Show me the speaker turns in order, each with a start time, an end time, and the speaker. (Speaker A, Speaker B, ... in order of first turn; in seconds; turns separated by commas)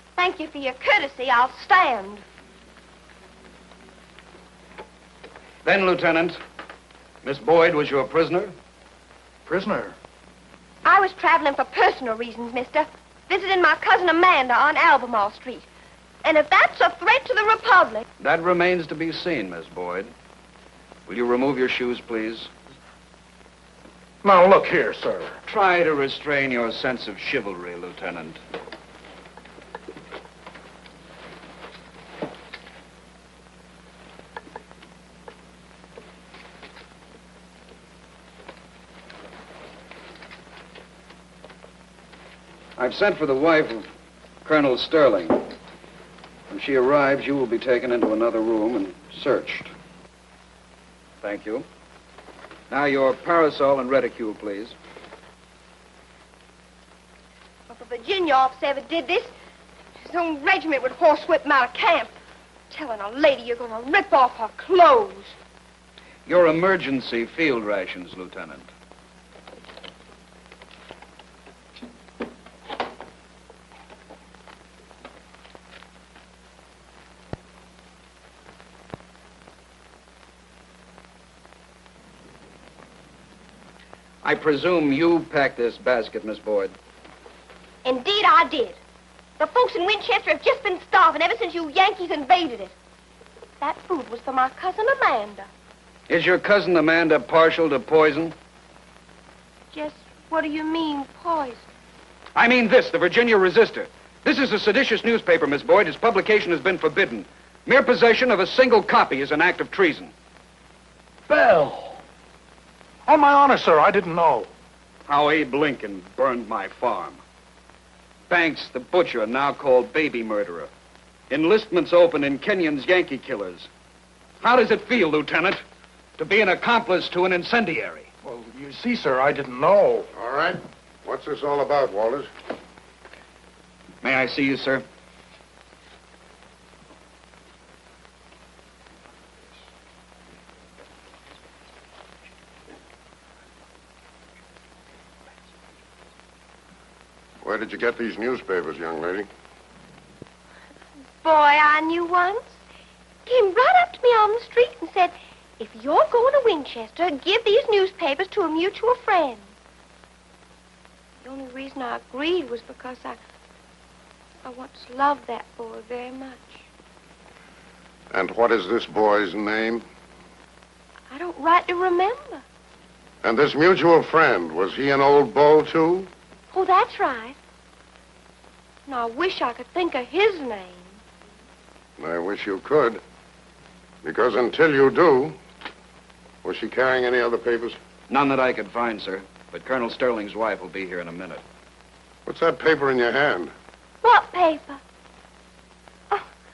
Speaker A: 0.2-2.2, Speaker B: 5.6-6.4, Speaker B: 7.2-8.6, Speaker C: 9.4-10.0, Speaker A: 10.8-15.7, Speaker A: 16.2-18.1, Speaker B: 18.2-20.1, Speaker B: 21.1-22.5, Speaker C: 24.2-25.4, Speaker B: 25.5-28.4, Speaker B: 42.8-43.9, Speaker B: 44.5-45.5, Speaker B: 46.5-49.7, Speaker B: 51.2-51.7, Speaker B: 52.7-54.8, Speaker A: 57.7-59.3, Speaker A: 60.0-62.1, Speaker A: 62.7-65.4, Speaker B: 66.3-68.7, Speaker B: 84.2-86.7, Speaker A: 87.8-88.8, Speaker A: 89.4-92.7, Speaker A: 93.6-95.5, Speaker B: 96.1-98.3, Speaker A: 99.7-101.7, Speaker B: 102.3-110.1, Speaker C: 111.3-112.0, Speaker C: 113.1-114.5, Speaker B: 115.1-117.2, Speaker B: 118.3-120.7, Speaker B: 121.3-123.7, Speaker B: 124.4-125.6, Speaker B: 126.2-128.1, Speaker C: 128.2-130.1, Speaker D: 130.1-132.3, Speaker B: 134.0-134.8, Speaker D: 147.4-149.3, Speaker A: 151.2-152.6, Speaker A: 153.3-159.6, Speaker A: 161.2-163.2, Speaker A: 164.4-166.7, Speaker D: 168.1-169.8, Speaker A: 171.1-172.4, Speaker D: 173.2-176.1, Speaker A: 176.5-177.4, Speaker A: 178.9-181.0, Speaker D: 182.0-183.0, Speaker D: 184.0-185.4, Speaker D: 186.4-187.8, Speaker B: 188.1-191.4, Speaker D: 192.3-193.5, Speaker A: 194.0-194.8